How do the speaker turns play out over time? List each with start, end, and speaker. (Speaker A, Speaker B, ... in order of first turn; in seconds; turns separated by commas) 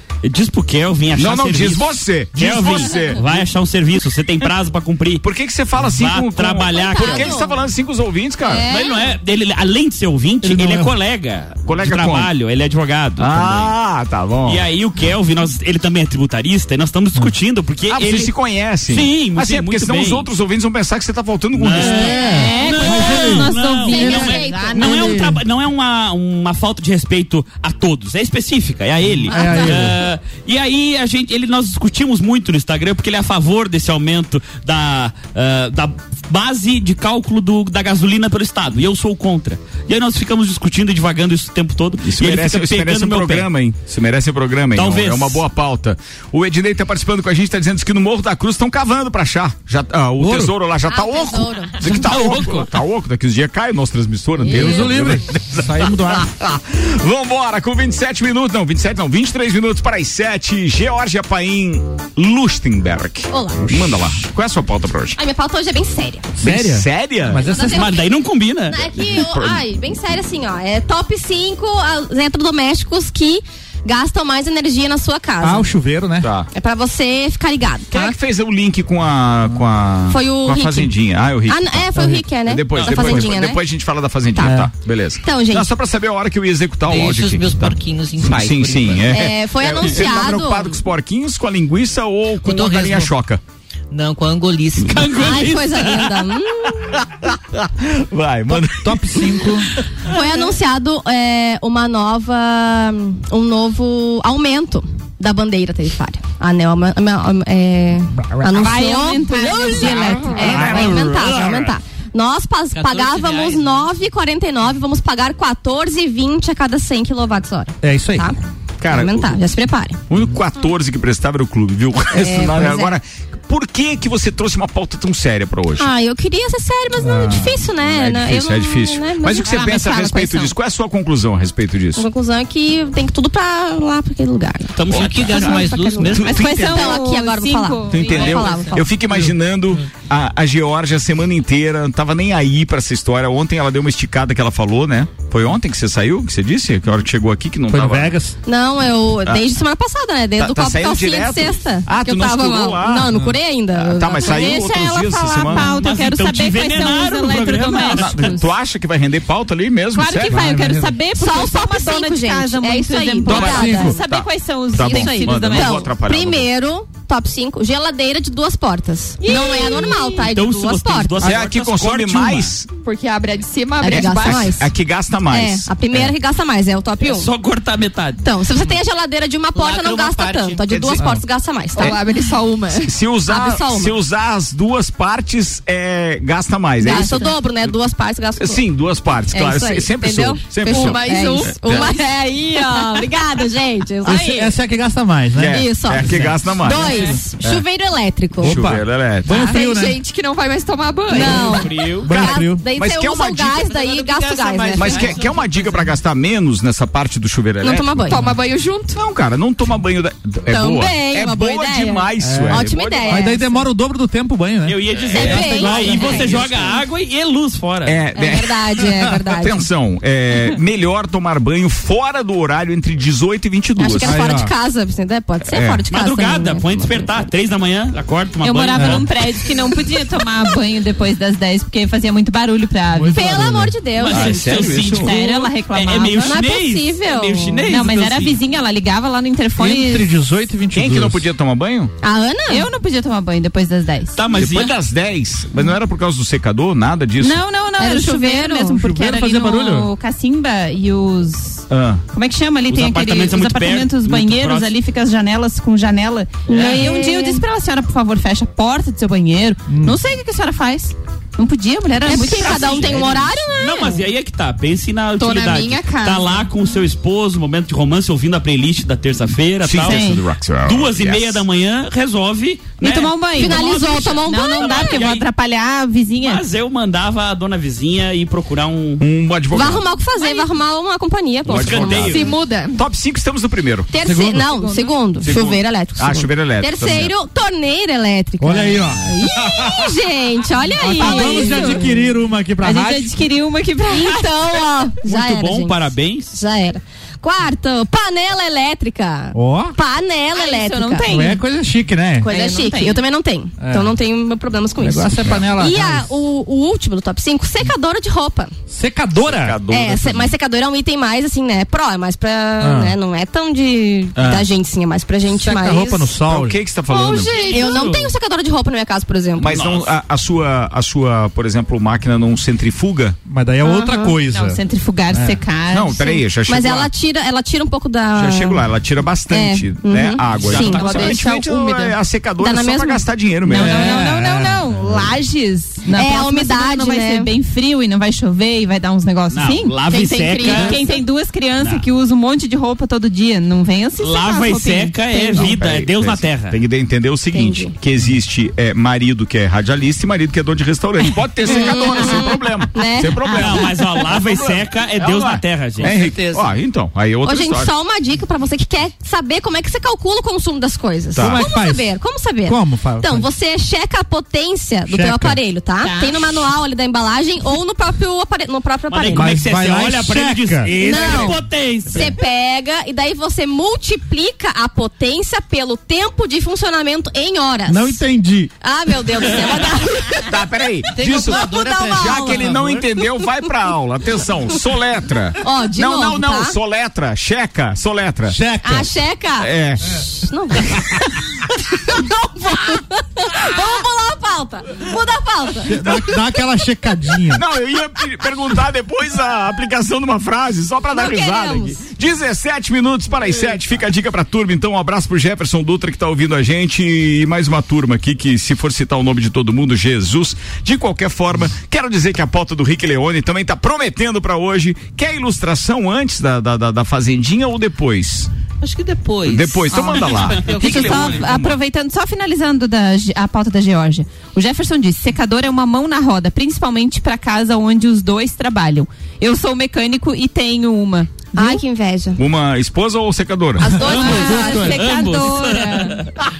Speaker A: 0.2-5.2, Speaker B: 1.1-3.4, Speaker B: 5.2-8.7, Speaker A: 5.8-7.4, Speaker C: 6.7-7.6, Speaker C: 8.5-8.9, Speaker A: 8.7-13.7, Speaker D: 10.4-10.9, Speaker B: 11.7-12.3, Speaker B: 13.2-14.6, Speaker A: 14.4-18.3, Speaker B: 17.9-22.2, Speaker A: 18.9-20.3, Speaker A: 21.6-43.5, Speaker D: 21.6-25.4, Speaker E: 22.1-25.0, Speaker C: 23.9-25.1, Speaker D: 29.2-30.0, Speaker C: 29.3-29.8, Speaker B: 42.0-65.2, Speaker A: 44.7-45.4, Speaker D: 50.2-50.5, Speaker C: 50.9-51.9, Speaker D: 52.0-52.5, Speaker A: 52.0-52.6, Speaker D: 54.4-56.3, Speaker C: 54.5-55.0, Speaker C: 63.3-64.0, Speaker C: 65.2-66.3, Speaker D: 66.4-67.9, Speaker B: 66.4-67.5, Speaker C: 67.4-68.1, Speaker A: 67.6-68.8, Speaker C: 68.7-75.7, Speaker B: 68.9-69.6, Speaker D: 75.4-76.3, Speaker B: 76.2-76.5, Speaker C: 76.5-78.2, Speaker B: 77.9-93.4, Speaker C: 80.1-80.9, Speaker C: 81.5-83.6, Speaker D: 82.0-82.2, Speaker A: 82.7-83.3, Speaker C: 84.3-84.6, Speaker D: 84.4-84.7, Speaker C: 85.2-85.7, Speaker F: 86.9-89.2, Speaker C: 89.1-90.8, Speaker F: 92.4-93.1, Speaker F: 93.9-95.2, Speaker A: 94.8-96.3, Speaker C: 95.1-96.8, Speaker B: 97.2-99.4, Speaker D: 98.5-99.7, Speaker C: 100.0-118.4, Speaker E: 108.5-110.6, Speaker D: 110.4-111.2, Speaker B: 110.6-111.4, Speaker F: 112.7-113.9, Speaker D: 117.8-118.3, Speaker B: 118.8-119.4, Speaker C: 118.9-120.0, Speaker B: 120.1-125.9, Speaker C: 122.1-123.0, Speaker C: 125.8-130.5, Speaker D: 127.0-127.5, Speaker B: 127.8-132.1, Speaker E: 129.5-130.4, Speaker C: 131.9-138.8, Speaker A: 134.8-135.6, Speaker F: 134.9-136.9, Speaker B: 134.9-136.8, Speaker E: 136.2-138.7, Speaker B: 137.9-148.2, Speaker D: 139.1-139.3, Speaker D: 147.7-148.3, Speaker C: 148.4-154.7, Speaker B: 150.4-153.2, Speaker B: 153.7-155.7, Speaker E: 154.2-158.5, Speaker A: 155.5-158.3, Speaker B: 157.7-160.4, Speaker E: 159.9-165.9, Speaker D: 160.2-161.0, Speaker C: 161.2-164.0, Speaker B: 163.3-166.5, Speaker C: 164.8-171.4, Speaker G: 169.2-170.1, Speaker E: 169.2-169.9, Speaker A: 170.2-172.5, Speaker B: 171.2-172.7, Speaker G: 172.8-174.6, Speaker C: 173.8-174.7, Speaker B: 173.9-176.1, Speaker C: 175.2-177.3, Speaker A: 177.0-178.2, Speaker C: 178.2-182.0, Speaker F: 179.5-180.6, Speaker B: 180.7-181.1, Speaker G: 181.7-182.9, Speaker B: 182.7-187.4, Speaker C: 183.2-184.0, Speaker C: 186.8-188.6, Speaker B: 188.4-191.9, Speaker C: 189.3-194.5, Speaker G: 190.6-191.8, Speaker D: 194.0-196.8, Speaker B: 195.3-197.6, Speaker C: 195.4-198.7, Speaker B: 198.4-199.5, Speaker D: 198.4-200.0, Speaker G: 199.4-201.6, Speaker C: 201.1-205.2, Speaker D: 201.1-202.6, Speaker A: 201.4-202.1, Speaker B: 202.1-203.7, Speaker F: 203.6-205.9, Speaker B: 204.7-208.1, Speaker C: 207.6-208.2, Speaker G: 208.0-209.0, Speaker B: 208.9-213.3, Speaker C: 210.5-213.7, Speaker D: 212.2-216.2, Speaker A: 214.6-218.0, Speaker C: 215.1-216.8, Speaker B: 217.8-224.2, Speaker C: 218.1-219.7, Speaker C: 223.8-227.3, Speaker D: 224.0-224.5, Speaker B: 225.5-225.8, Speaker A: 225.9-229.1, Speaker E: 228.4-233.6, Speaker D: 228.7-229.0, Speaker D: 232.9-233.8, Speaker C: 233.1-234.7, Speaker A: 234.0-238.3, Speaker B: 234.1-235.1, Speaker E: 234.2-236.4, Speaker C: 236.2-237.7, Speaker E: 237.6-240.1, Speaker D: 239.6-241.2, Speaker B: 240.7-241.9, Speaker C: 242.0-242.7, Speaker E: 242.5-244.2, Speaker A: 244.2-244.8, Speaker B: 244.3-247.4, Speaker E: 247.2-263.0, Speaker C: 247.8-248.8, Speaker D: 248.7-249.9, Speaker B: 251.7-252.0, Speaker A: 252.7-254.7, Speaker C: 256.5-257.4, Speaker D: 259.7-260.0, Speaker C: 262.0-264.0, Speaker A: 262.3-270.1, Speaker G: 265.2-266.5, Speaker B: 269.6-271.4, Speaker E: 269.8-270.2, Speaker A: 270.6-273.6, Speaker E: 272.8-276.4, Speaker C: 273.3-275.1, Speaker A: 274.5-275.3, Speaker A: 276.2-279.0, Speaker B: 279.0-279.9, Speaker C: 279.5-282.4, Speaker A: 281.4-282.3, Speaker B: 281.4-283.9, Speaker G: 282.1-282.8, Speaker C: 283.9-292.0, Speaker D: 284.1-284.4, Speaker G: 284.4-285.0, Speaker B: 285.2-287.1, Speaker D: 288.4-289.9, Speaker D: 290.8-293.2, Speaker E: 291.0-292.1, Speaker E: 292.6-294.2, Speaker C: 293.9-301.1, Speaker A: 295.0-296.4, Speaker D: 299.3-299.8, Speaker E: 300.3-301.4, Speaker D: 301.1-302.3, Speaker C: 302.2-308.5, Speaker E: 302.2-303.0, Speaker D: 303.6-303.9, Speaker D: 304.8-306.1, Speaker D: 308.7-309.6, Speaker B: 309.2-310.4, Speaker C: 309.7-316.2, Speaker D: 312.6-312.9, Speaker B: 314.1-314.5, Speaker D: 315.3-316.6, Speaker B: 316.2-317.6, Speaker C: 316.9-319.5, Speaker G: 317.1-317.8, Speaker B: 319.4-323.2, Speaker A: 319.4-319.9, Speaker D: 323.2-324.6, Speaker C: 323.6-324.2, Speaker E: 324.3-326.2, Speaker D: 325.1-325.4, Speaker B: 325.7-326.9, Speaker C: 326.4-328.6, Speaker B: 328.1-334.0, Speaker C: 329.3-331.2, Speaker G: 330.6-331.9, Speaker C: 332.4-333.1, Speaker E: 333.5-345.6, Speaker D: 333.5-335.1, Speaker C: 335.9-337.3, Speaker A: 339.3-341.0, Speaker C: 339.9-340.9, Speaker A: 341.6-341.8, Speaker A: 344.0-346.6, Speaker B: 345.4-357.7, Speaker C: 347.3-347.7, Speaker C: 351.4-353.6, Speaker A: 353.3-355.9, Speaker F: 355.8-356.6, Speaker C: 357.2-369.3, Speaker B: 361.1-361.5, Speaker D: 361.1-361.9, Speaker D: 362.4-363.3, Speaker D: 364.9-365.4, Speaker E: 365.8-366.1, Speaker A: 368.9-372.1, Speaker D: 369.1-371.4, Speaker C: 370.7-378.0, Speaker D: 377.7-378.5, Speaker C: 378.6-380.4, Speaker B: 380.2-388.4, Speaker F: 380.9-382.8, Speaker C: 381.3-382.5, Speaker C: 385.4-386.6, Speaker D: 388.3-388.9, Speaker C: 388.6-391.2, Speaker B: 389.4-390.0, Speaker C: 391.7-396.2, Speaker D: 395.6-397.4, Speaker B: 397.3-418.3, Speaker C: 400.9-401.8, Speaker F: 418.6-421.4, Speaker B: 419.2-421.5, Speaker A: 420.2-420.7, Speaker E: 420.5-431.6, Speaker C: 431.3-432.2, Speaker B: 432.2-433.9, Speaker C: 433.6-435.0, Speaker A: 433.8-436.1, Speaker E: 433.8-436.0